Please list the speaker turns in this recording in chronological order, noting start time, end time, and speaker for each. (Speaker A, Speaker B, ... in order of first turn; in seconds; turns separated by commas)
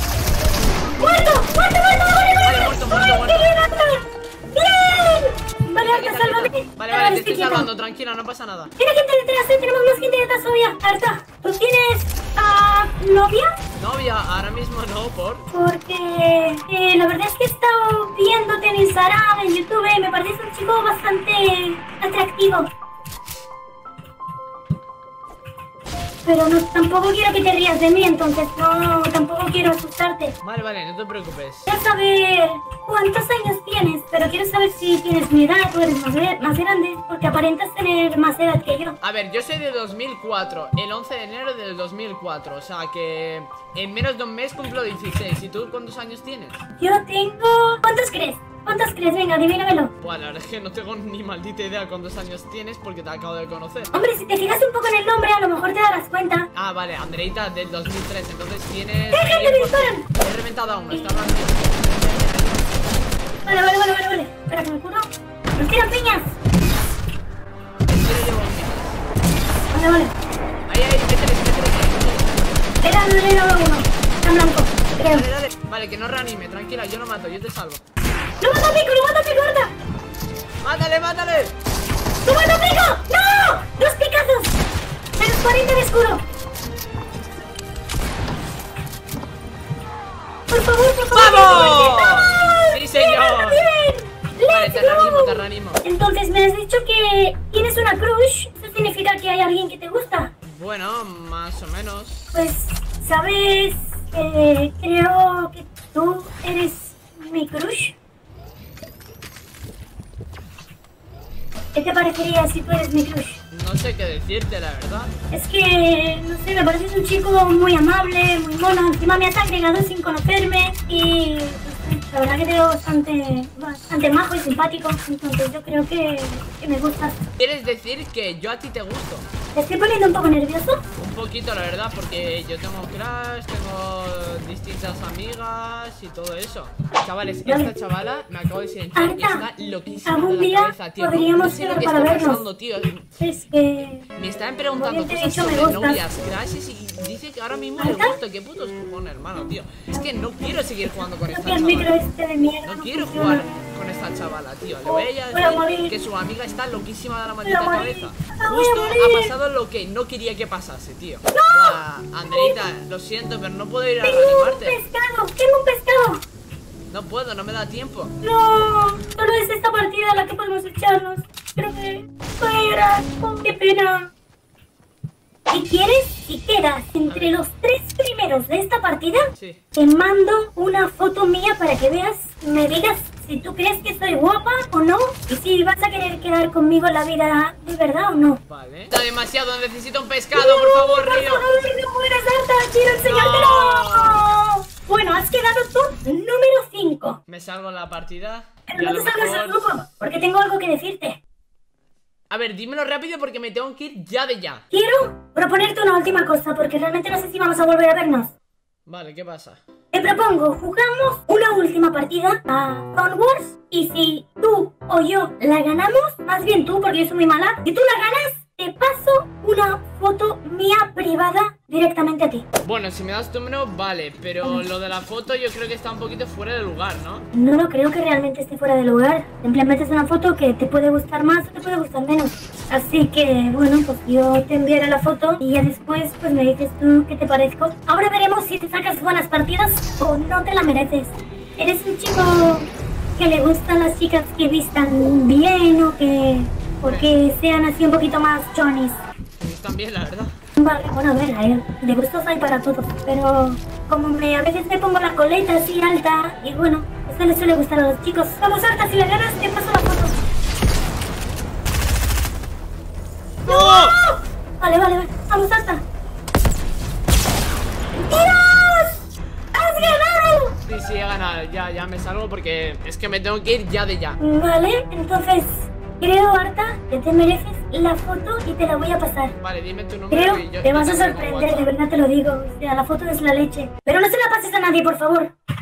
Speaker A: 1.0-7.7, Speaker B: 2.4-3.5, Speaker B: 5.8-8.7, Speaker A: 8.8-13.5, Speaker B: 13.8-15.5, Speaker A: 15.5-22.7, Speaker A: 26.2-30.4, Speaker B: 30.4-31.7, Speaker A: 31.7-39.0, Speaker B: 39.0-46.6, Speaker A: 46.8-49.9, Speaker B: 50.0-53.9, Speaker A: 53.9-56.5, Speaker B: 56.5-62.8, Speaker A: 59.1-60.1, Speaker A: 63.5-66.3, Speaker B: 67.8-69.0, Speaker A: 69.7-70.1, Speaker B: 70.7-72.5, Speaker A: 72.8-75.2, Speaker B: 75.0-77.8, Speaker A: 78.4-79.7, Speaker B: 80.6-81.5, Speaker A: 82.2-84.6, Speaker A: 85.2-86.2, Speaker A: 90.5-100.3, Speaker B: 91.1-93.7, Speaker B: 94.5-95.8, Speaker B: 100.5-102.3, Speaker A: 102.3-108.0, Speaker A: 111.7-113.4, Speaker B: 113.5-115.1, Speaker A: 115.3-127.2, Speaker B: 127.4-129.3, Speaker A: 129.5-130.8, Speaker B: 131.0-143.1, Speaker A: 138.9-139.4, Speaker A: 140.1-142.4, Speaker A: 143.2-144.1, Speaker B: 144.2-152.0, Speaker A: 144.8-146.0, Speaker A: 147.8-148.2, Speaker A: 151.3-153.5, Speaker B: 152.7-164.8, Speaker A: 154.8-155.9, Speaker A: 157.4-159.3, Speaker A: 161.3-161.8, Speaker A: 162.3-162.6, Speaker A: 164.0-166.2, Speaker B: 166.9-168.1, Speaker A: 168.2-174.1, Speaker A: 175.5-188.4, Speaker B: 177.1-177.4, Speaker B: 179.3-179.6, Speaker B: 188.5-191.4, Speaker A: 190.3-197.2, Speaker B: 193.0-194.3, Speaker B: 197.3-199.9, Speaker A: 198.7-201.2, Speaker B: 202.3-204.6, Speaker A: 204.7-208.3, Speaker B: 208.9-209.6, Speaker A: 209.9-222.4, Speaker B: 222.6-227.3, Speaker A: 227.3-249.0, Speaker B: 249.4-250.3, Speaker A: 250.6-260.2, Speaker B: 263.5-264.0, Speaker A: 263.5-265.8, Speaker A: 267.9-269.0, Speaker A: 269.5-270.6, Speaker B: 270.6-274.2, Speaker A: 274.2-279.3, Speaker B: 279.4-281.7, Speaker A: 280.1-285.3